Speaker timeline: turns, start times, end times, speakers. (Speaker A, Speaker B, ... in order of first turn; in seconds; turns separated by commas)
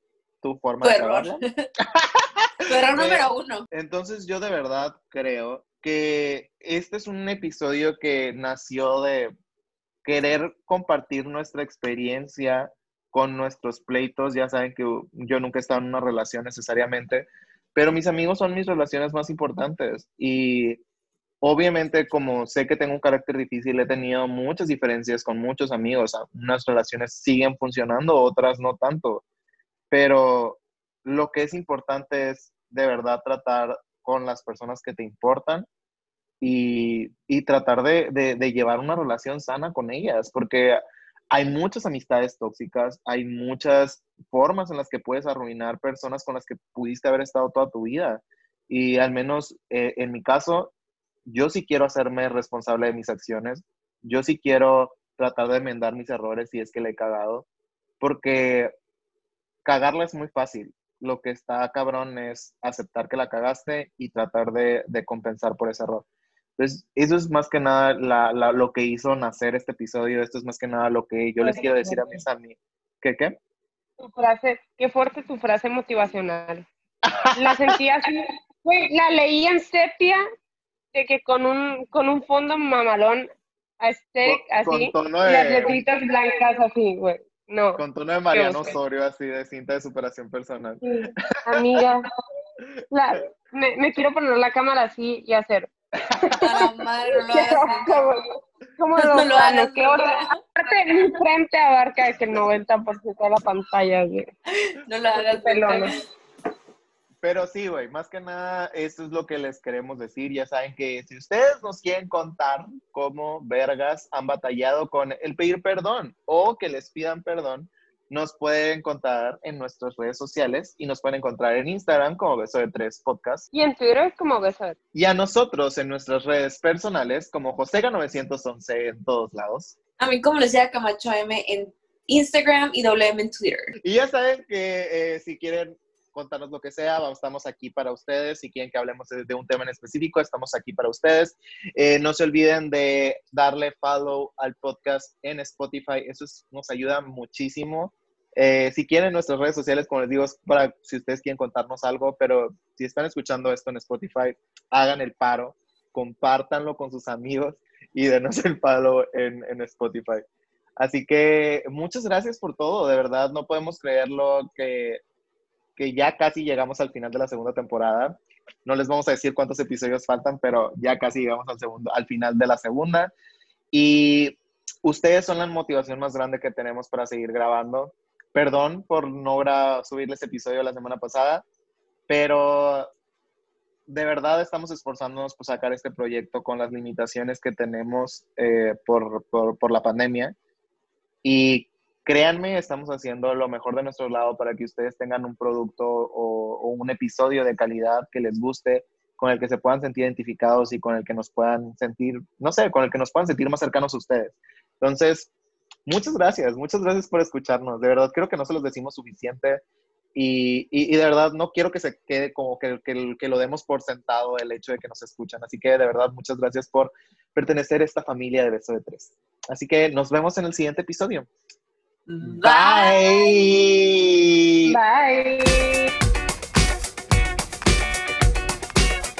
Speaker A: 0.4-9.3, Speaker B: 0.8-1.5, Speaker B: 2.6-3.6, Speaker A: 10.0-20.8, Speaker A: 21.4-29.2, Speaker A: 29.9-35.7, Speaker A: 36.4-40.8, Speaker A: 41.3-50.7, Speaker A: 51.2-57.5, Speaker A: 58.0-58.7, Speaker A: 59.6-66.0, Speaker A: 66.6-73.3, Speaker C: 71.4-72.2, Speaker C: 74.0-76.7, Speaker A: 77.0-77.8, Speaker C: 77.3-80.2, Speaker C: 80.9-83.3, Speaker C: 83.8-88.8, Speaker A: 84.2-85.8, Speaker A: 87.8-91.4, Speaker C: 90.8-92.0, Speaker C: 92.9-96.4, Speaker A: 96.3-96.7, Speaker B: 96.4-98.1, Speaker C: 97.3-104.3, Speaker B: 99.0-100.3, Speaker B: 104.7-105.9, Speaker C: 105.1-105.9, Speaker A: 107.2-123.5, Speaker C: 123.5-124.8, Speaker A: 124.9-129.8, Speaker B: 130.0-133.7, Speaker A: 133.8-160.2, Speaker A: 160.8-165.0, Speaker A: 165.8-173.1, Speaker A: 173.7-181.4, Speaker A: 182.1-182.9, Speaker A: 183.9-190.3, Speaker A: 191.2-205.3, Speaker A: 205.8-209.6, Speaker A: 210.1-221.3, Speaker B: 222.1-223.4, Speaker A: 222.4-224.8, Speaker C: 224.6-225.9